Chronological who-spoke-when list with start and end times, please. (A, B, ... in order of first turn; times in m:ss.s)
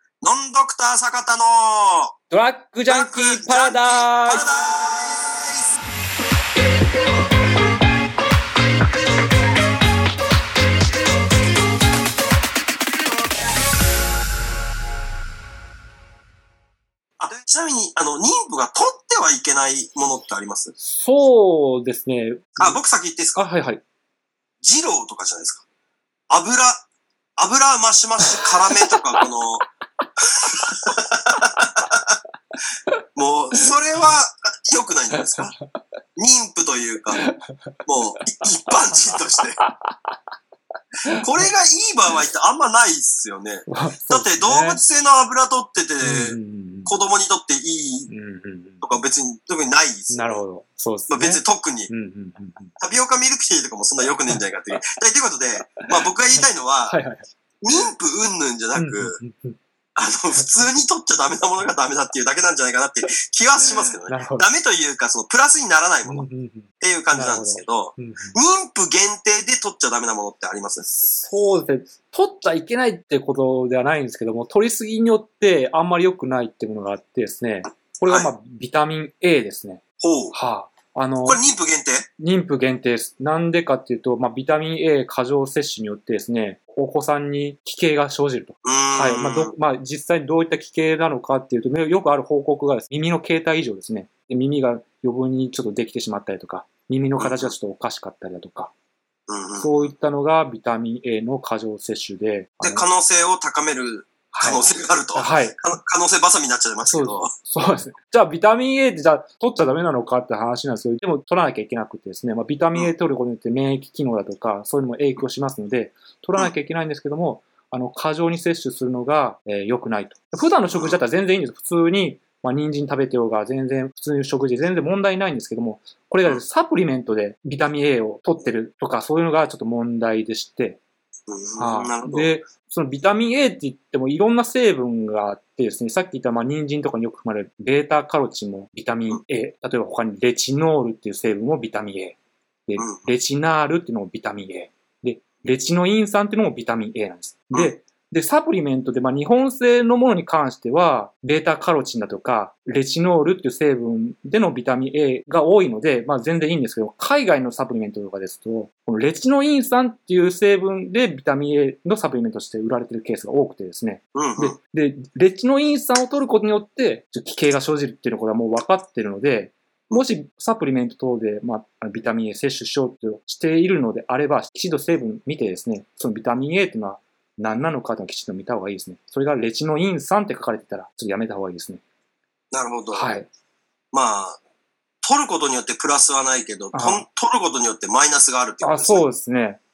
0:00.2-0:02.1 A
0:02.3-0:04.4 B
0:02.9-0:05.7 A
0:17.2-0:20.7 A
0:20.8-0:22.8 B
0:22.6-0:23.5 A
0:23.4-0:23.8 B
0:24.6-0:25.6 A
0:26.3-0:26.8 A
0:27.4-0:29.6 A
0:30.8-0:32.1 A
0:33.2-0:35.5 A
0:36.2-0:37.2 A
0:37.2-0:37.7 B
0:37.8-0:39.6 A
0:39.7-0:39.9 B
0:41.2-0:48.1 A
0:43.7-0:44.8 B
0:46.0-0:47.0 B
0:48.1-0:49.0 B
0:48.8-0:50.4 A
0:50.1-0:52.7 B
0:51.1-0:51.9 A
0:52.8-0:57.0 A
0:54.3-0:54.9 B
0:55.9-0:57.3 B
0:57.6-0:59.2 A
0:58.7-0:59.6 B
1:00.0-1:06.3 A
1:04.1-1:04.5 B
1:06.0-1:08.4 B
1:06.8-1:11.3 A
1:11.3-1:21.4 B
1:20.0-1:20.3 A
1:21.2-1:22.1 A
1:22.2-1:38.7 B
1:28.6-1:29.5 A
1:37.2-1:37.5 A
1:39.3-1:39.9 A
1:39.6-1:42.8 B
1:42.6-1:47.3 A
1:44.3-1:45.6 B
1:46.8-2:10.8 B
2:00.7-2:01.0 A
2:11.3-2:12.3 A
2:11.6-3:01.8 B
2:22.8-2:23.1 A
2:44.1-2:44.6 A
3:02.5-3:03.1 A
3:02.9-3:03.3 B
3:03.9-3:04.4 A
3:05.0-3:09.0 A
3:06.7-3:07.0 B
3:08.6-3:09.6 B